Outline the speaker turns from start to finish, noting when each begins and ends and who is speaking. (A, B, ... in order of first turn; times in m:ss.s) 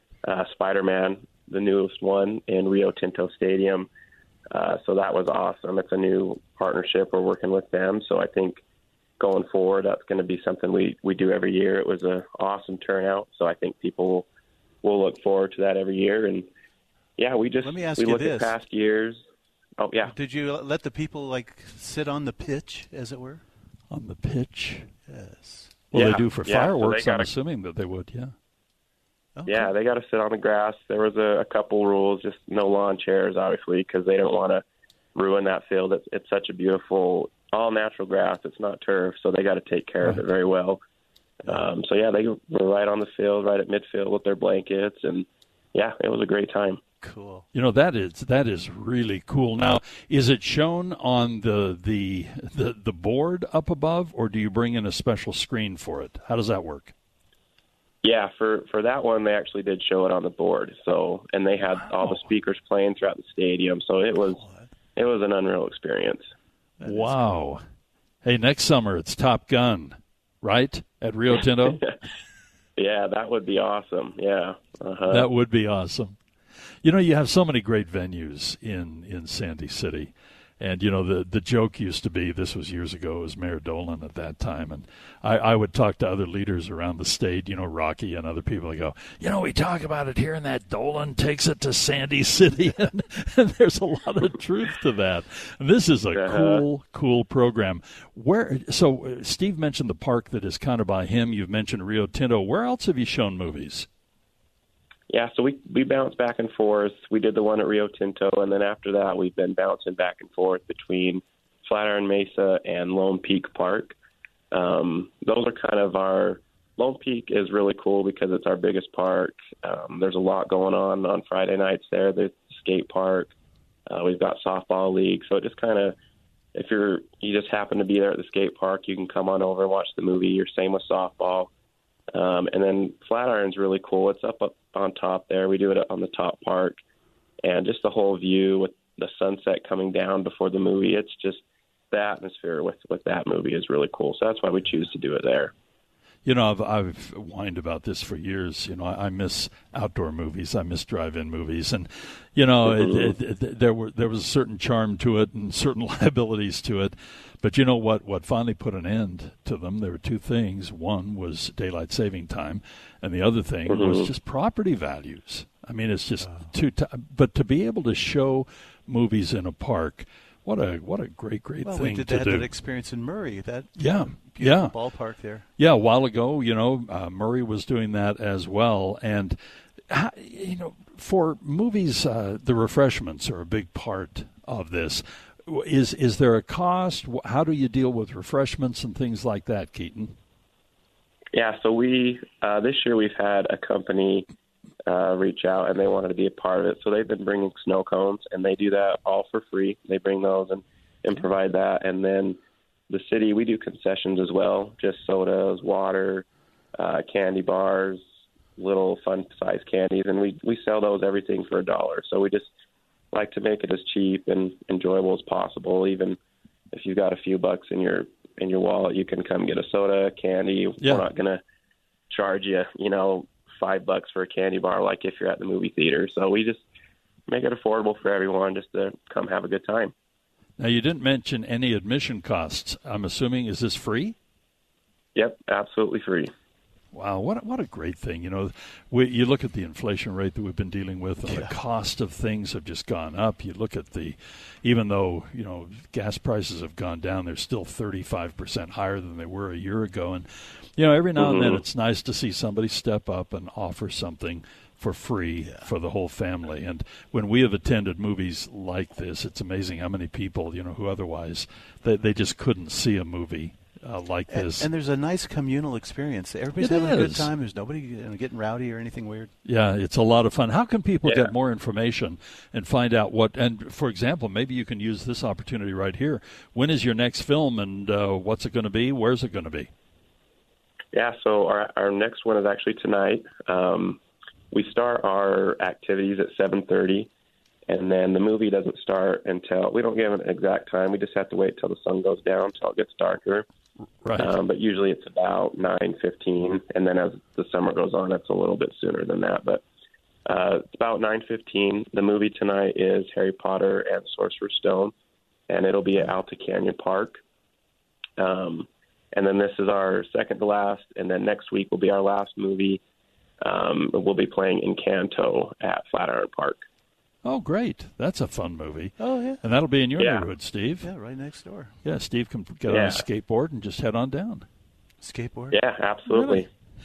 0:00.3-0:03.9 A
0:04.5-0:08.6 A
0:09.2-0:14.3 A
0:14.8-0:16.5 A
0:17.2-0:19.2 A
0:17.6-0:18.6 B
0:19.8-0:20.1 A
0:20.1-0:23.4 B
0:23.9-0:24.9 C
0:25.1-0:25.8 B
0:25.9-0:28.3 C
0:25.9-0:27.3 A
0:29.4-0:29.7 B
0:29.5-0:34.6 A
0:35.2-0:40.8 A
0:41.5-0:46.8 A
0:47.0-0:47.5 B
0:47.5-0:56.9 C
0:58.0-1:04.4 A
1:04.3-1:04.7 B
1:05.0-1:06.2 A
1:06.8-1:07.4 B
1:06.8-1:07.6 C
1:08.2-1:11.8 C
1:12.8-1:15.3 A
1:15.1-1:16.2 C
1:16.8-1:43.9 C
1:36.1-1:36.6 A
1:45.1-1:54.0 A
1:54.5-2:03.3 A
2:03.9-2:06.0 A
2:06.6-2:11.5 A
2:12.1-2:16.8 A
2:17.4-2:25.5 A
2:26.2-2:52.5 C
2:32.6-2:33.2 A
2:43.7-2:44.1 A
2:46.2-2:46.5 B
2:51.6-2:55.4 B
2:53.8-2:54.8 C
2:55.6-2:59.4 C
2:59.9-3:10.2 C
3:11.3-3:14.3 A
3:14.9-3:22.4 A
3:22.9-3:26.2 A
3:26.8-3:28.0 A
3:28.6-3:32.5 A
3:33.1-3:36.2 A
3:36.7-3:41.4 A
3:40.8-3:41.1 C
3:42.1-3:46.6 A
3:47.3-3:49.9 A
3:50.6-3:54.2 C
3:55.2-3:56.3 A
3:56.9-4:24.7 C
4:01.3-4:01.5 B
4:11.2-4:11.6 A
4:15.4-4:15.7 B
4:24.3-4:29.3 B
4:26.6-4:27.3 C
4:29.4-4:39.7 C
4:40.9-4:44.0 A
4:44.5-4:47.1 A
4:47.7-4:53.5 A
4:54.0-4:54.4 C
4:54.2-4:59.6 A
5:00.3-5:04.9 A
5:05.5-5:07.2 A
5:08.2-5:12.8 A
5:13.4-5:16.6 A
5:17.2-5:20.9 C
5:19.0-5:19.4 B
5:20.0-5:20.3 A
5:20.8-5:21.7 B
5:21.8-5:24.5 C
5:22.7-5:23.0 A
5:25.0-5:25.6 B
5:25.5-5:26.5 A
5:26.1-5:26.5 C